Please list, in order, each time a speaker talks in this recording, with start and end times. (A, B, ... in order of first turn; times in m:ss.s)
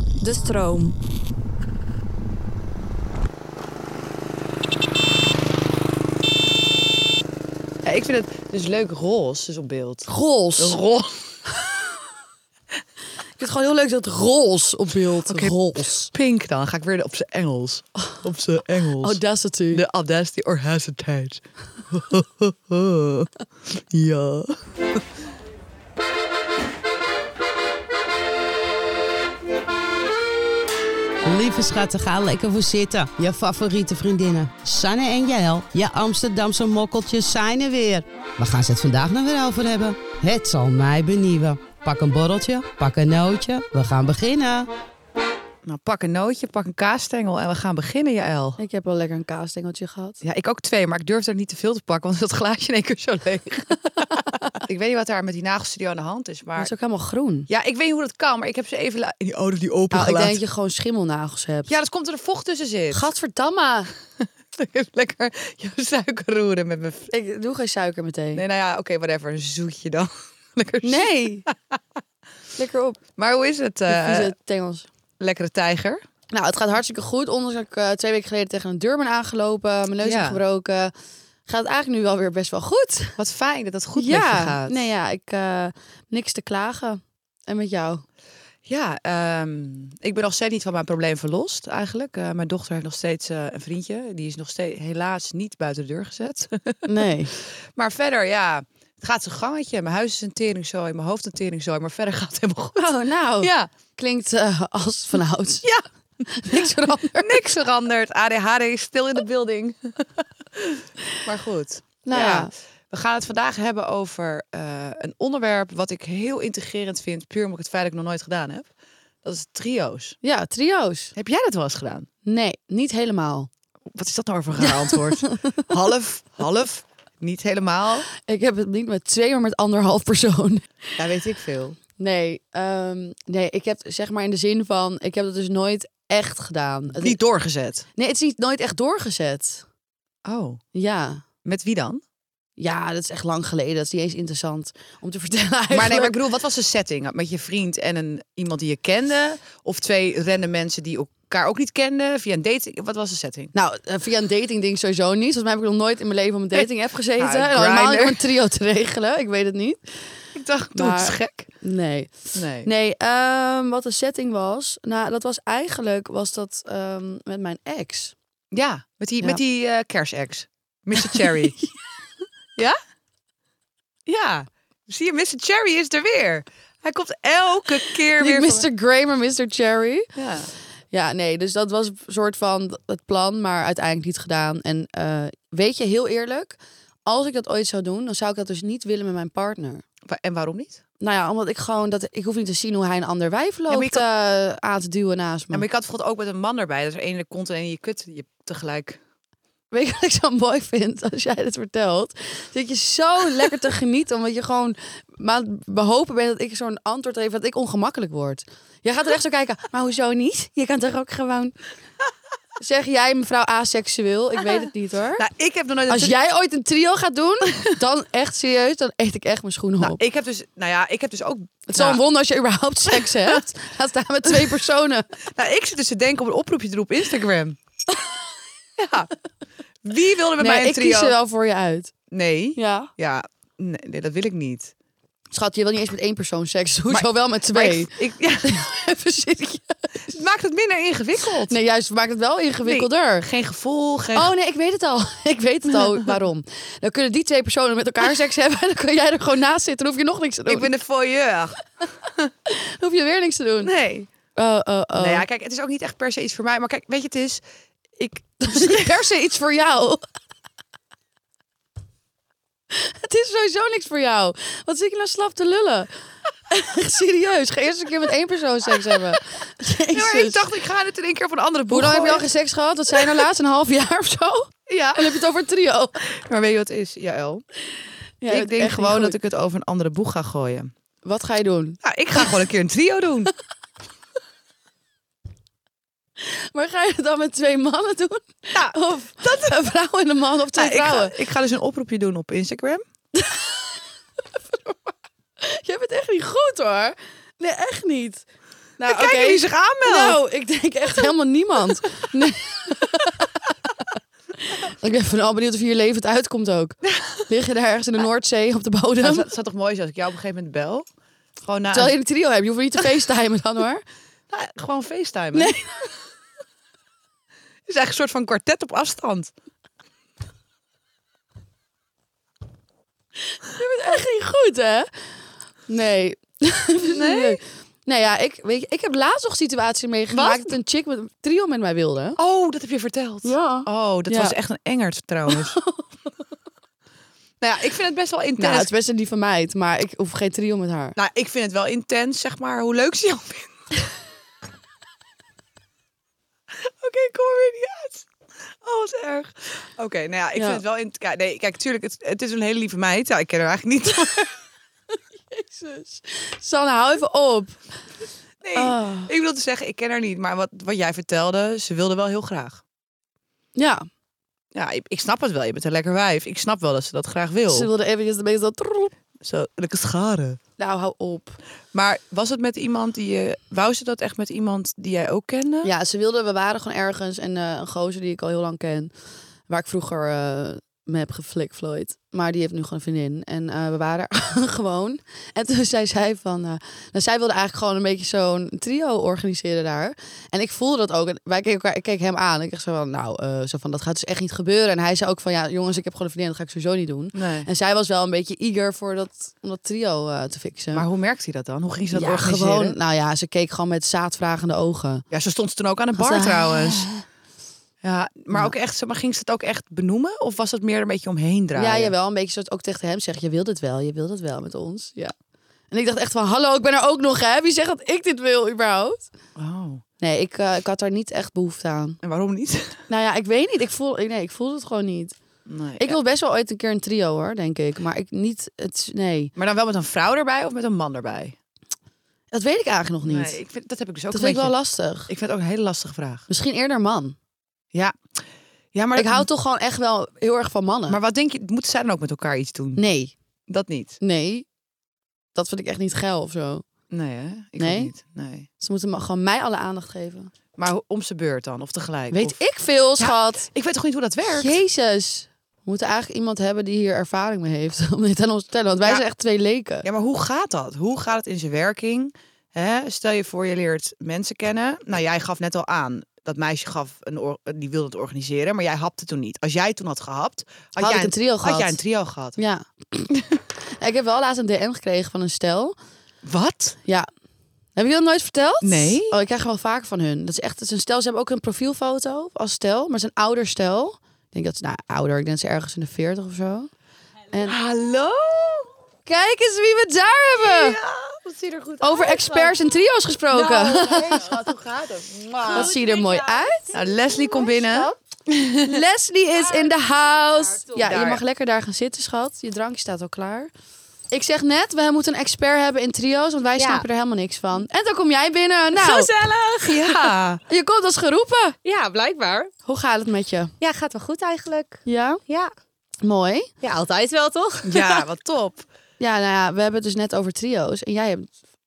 0:07.8-0:11.5 A
0:10.1-0:10.8 B
0:13.4-0:16.1 B
0:15.3-0:15.5 A
0:16.1-0:25.0 A
0:19.0-0:19.8 B
0:31.2-0:44.7 C
0:45.6-0:48.6 A
0:48.6-0:50.2 B
0:50.2-0:56.7 A
0:56.6-0:57.5 B
0:57.5-1:00.4 A
0:59.9-1:01.7 B
1:01.7-1:03.0 A
1:02.9-1:03.9 B
1:04.5-1:07.1 A
1:07.1-1:08.4 B
1:08.3-1:11.8 A
1:10.8-1:11.4 B
1:12.6-1:13.0 B
1:13.2-1:14.3 A
1:13.9-1:14.9 B
1:15.2-1:16.0 A
1:16.3-1:20.9 B
1:20.0-1:20.4 A
1:21.4-1:23.2 B
1:23.2-1:24.9 A
1:24.0-1:28.0 B
1:28.7-1:43.7 A
1:36.9-1:37.3 B
1:42.8-1:45.6 B
1:46.3-1:47.4 B
1:46.4-1:58.7 A
1:52.0-1:52.5 B
1:59.2-2:00.2 A
2:00.2-2:01.1 B
2:01.2-2:02.1 A
2:02.2-2:03.5 B
2:03.9-2:08.1 A
2:04.9-2:05.6 B
2:08.2-2:10.7 B
2:11.0-2:11.8 A
2:12.0-2:17.2 B
2:17.0-2:17.8 A
2:17.9-2:19.7 B
2:20.2-2:20.6 A
2:20.7-2:21.2 B
2:21.4-2:22.0 A
2:22.6-2:26.2 B
2:25.7-2:33.5 A
2:33.5-2:40.2 B
2:37.2-2:38.2 A
2:40.3-2:41.5 A
2:40.8-2:48.2 B
2:42.3-2:42.7 A
2:48.5-2:51.6 A
2:51.0-2:51.3 B
2:54.1-2:58.7 A
2:58.2-3:00.1 B
3:00.2-3:00.5 A
3:00.9-3:09.8 B
3:10.1-3:10.8 A
3:11.0-3:15.6 B
3:13.7-3:14.0 A
3:15.5-3:19.0 A
3:19.7-3:31.6 B
3:32.6-3:35.2 B
3:35.2-3:36.2 A
3:35.9-3:40.0 B
3:39.8-3:42.0 A
3:41.7-3:45.1 B
3:42.9-3:43.4 A
3:44.3-3:44.6 A
3:45.3-3:47.6 A
3:48.8-3:49.1 A
3:49.8-3:51.2 A
3:50.4-3:51.9 B
3:52.1-3:54.7 A
3:52.6-3:52.9 B
3:55.3-4:00.1 B
3:56.9-3:58.7 A
4:00.1-4:01.6 A
4:01.5-4:03.3 B
4:02.6-4:04.3 A
4:04.1-4:10.7 B
4:10.5-4:12.3 A
4:12.5-4:13.7 B
4:13.6-4:14.1 A
4:14.3-4:15.2 B
4:15.0-4:17.4 A
4:18.0-4:20.0 B
4:18.5-4:18.9 A
4:22.7-4:25.9 B
4:26.5-4:30.4 B
4:29.9-4:32.3 A
4:31.7-4:36.0 B
4:32.9-4:33.2 A
4:34.7-4:35.2 A
4:36.0-4:37.4 A
4:38.2-4:39.2 B
4:38.3-4:40.7 A
4:41.0-4:42.3 B
4:41.8-4:43.3 A
4:46.2-4:51.2 B
4:48.5-4:49.6 A
4:50.6-4:52.8 A
4:53.1-4:53.8 B
4:54.4-4:58.2 B
4:58.8-5:03.4 B
4:58.9-5:00.2 A
5:04.4-5:09.3 B
5:06.8-5:07.2 A
5:09.0-5:10.9 A
5:11.4-5:12.0 A
5:11.7-5:13.8 B
5:14.3-5:15.5 A
5:15.3-5:15.9 B
5:17.7-5:19.3 A
5:23.3-5:25.2 B
5:25.7-5:32.2 B
5:26.9-5:27.4 A
5:30.1-5:30.5 A
5:32.2-5:35.6 A
5:33.2-5:34.4 B
5:37.4-5:38.7 A
5:38.4-5:41.0 B
5:41.0-5:43.6 A
5:46.5-5:54.4 A
5:50.4-5:50.6 B
5:55.3-5:57.6 B
5:58.4-6:02.6 A
5:58.6-5:59.1 B
6:03.6-6:03.9 B
6:04.6-6:07.7 A
6:07.5-6:08.9 B
6:09.2-6:10.4 A
6:10.6-6:11.4 B
6:11.7-6:15.7 A
6:15.6-6:18.9 B
6:19.5-6:40.8 B
6:37.1-6:37.5 A
6:40.7-6:42.8 A
6:41.9-6:45.0 B
6:45.1-6:46.9 A
6:46.0-6:47.0 B
6:47.8-6:51.9 A
6:51.6-6:55.1 B
6:55.7-6:59.1 B
6:59.4-6:59.8 A
7:00.0-7:02.0 B
7:02.0-7:02.8 A
7:02.9-7:05.2 B
7:05.5-7:06.0 A
7:05.8-7:09.3 B
7:09.4-7:11.4 A
7:12.3-7:13.4 B
7:13.0-7:14.6 A
7:14.1-7:15.1 B
7:15.1-7:16.3 A
7:16.3-7:17.2 B
7:17.7-7:18.0 A
7:18.7-7:19.3 A
7:18.9-7:21.0 B
7:20.9-7:22.8 A
7:22.8-7:23.1 B
7:23.5-7:24.0 A
7:24.0-7:24.4 B
7:25.4-7:26.6 B
7:26.9-7:28.5 A
7:27.6-7:27.9 B
7:28.6-7:30.3 B
7:30.6-7:32.4 A
7:32.1-7:33.5 B
7:33.0-7:34.6 A
7:34.3-7:39.9 B
7:39.8-7:52.4 A
7:50.8-7:51.8 B
7:52.4-7:53.1 B
7:53.8-7:55.8 B
7:56.2-7:56.8 A
7:57.8-8:06.7 B
7:58.6-7:59.1 A
8:07.3-8:07.6 B
8:07.4-8:08.7 A
8:09.1-8:10.8 B
8:10.4-8:12.7 A
8:11.8-8:14.4 B
8:13.3-8:15.7 A
8:15.4-8:17.8 D
8:15.5-8:16.7 B
8:16.7-8:18.8 A
8:18.6-8:23.5 B
8:19.3-8:20.9 D
8:20.8-8:21.2 A
8:24.1-8:29.1 B
8:26.6-8:26.9 D
8:28.8-8:30.1 D
8:29.6-8:30.4 A
8:30.5-8:31.6 B
8:31.6-8:32.5 D
8:32.6-8:33.5 B
8:33.6-8:35.5 D
8:34.9-8:35.2 B
8:36.0-8:36.5 B
8:36.6-8:38.0 D
8:37.6-8:38.6 A
8:39.0-8:41.3 B